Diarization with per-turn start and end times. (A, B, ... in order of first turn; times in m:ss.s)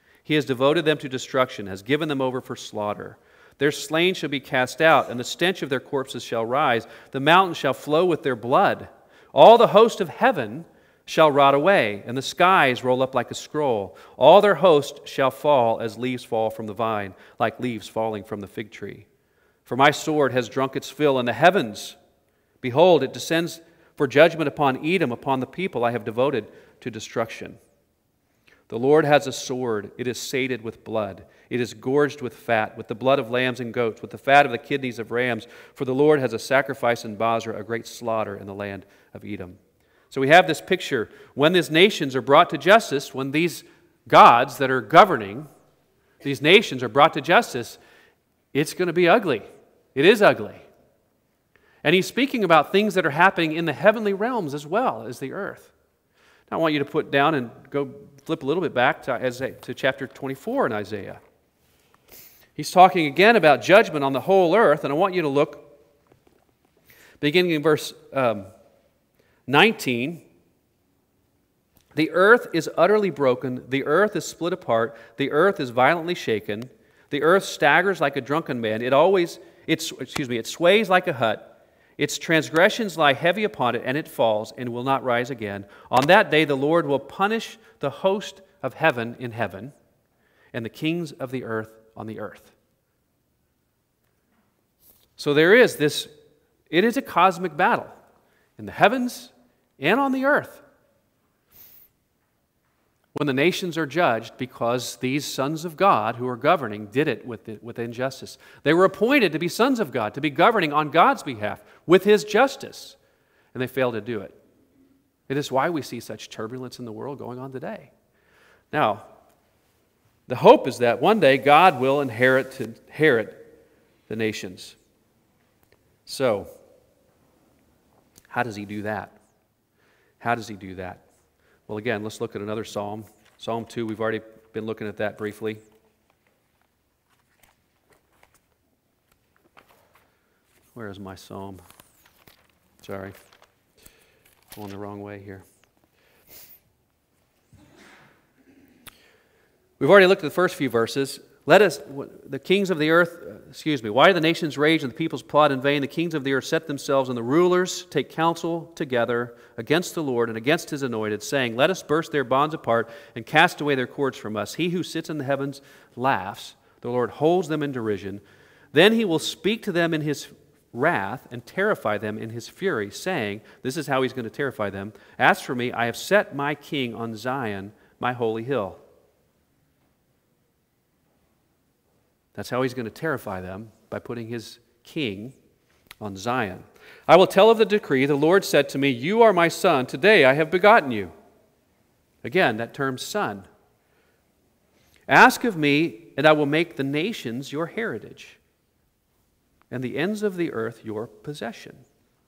0:00.2-0:19.1 A
0:19.7-0:22.0 A
0:22.6-0:27.6 A
0:28.7-0:39.6 A
0:40.1-0:45.5 A
0:46.2-0:47.8 A
0:48.5-0:50.7 A
0:51.8-0:55.7 A
0:56.5-1:01.2 A
1:02.6-1:05.7 A
1:07.2-1:08.5 A
1:09.5-1:10.2 A
1:12.0-1:21.5 A
1:22.0-1:29.7 A
1:30.5-1:32.6 A
1:35.2-1:36.1 A
1:36.7-1:38.0 A
1:38.6-1:40.6 A
1:43.2-1:53.0 A
1:53.5-1:54.4 A
1:55.3-1:57.9 A
1:58.7-1:59.1 A
2:00.3-2:03.4 A
2:04.1-2:04.8 A
2:06.1-2:06.5 A
2:08.3-2:09.2 A
2:10.2-2:11.0 A
2:11.7-2:15.6 A
2:20.7-2:21.6 A
2:22.8-2:23.2 A
2:24.5-2:25.4 A
2:29.8-2:48.2 A
2:48.7-2:58.8 A
3:02.4-3:05.4 A
3:06.0-3:11.1 A
3:12.2-3:13.5 A
3:15.1-3:18.4 A
3:19.7-3:21.8 A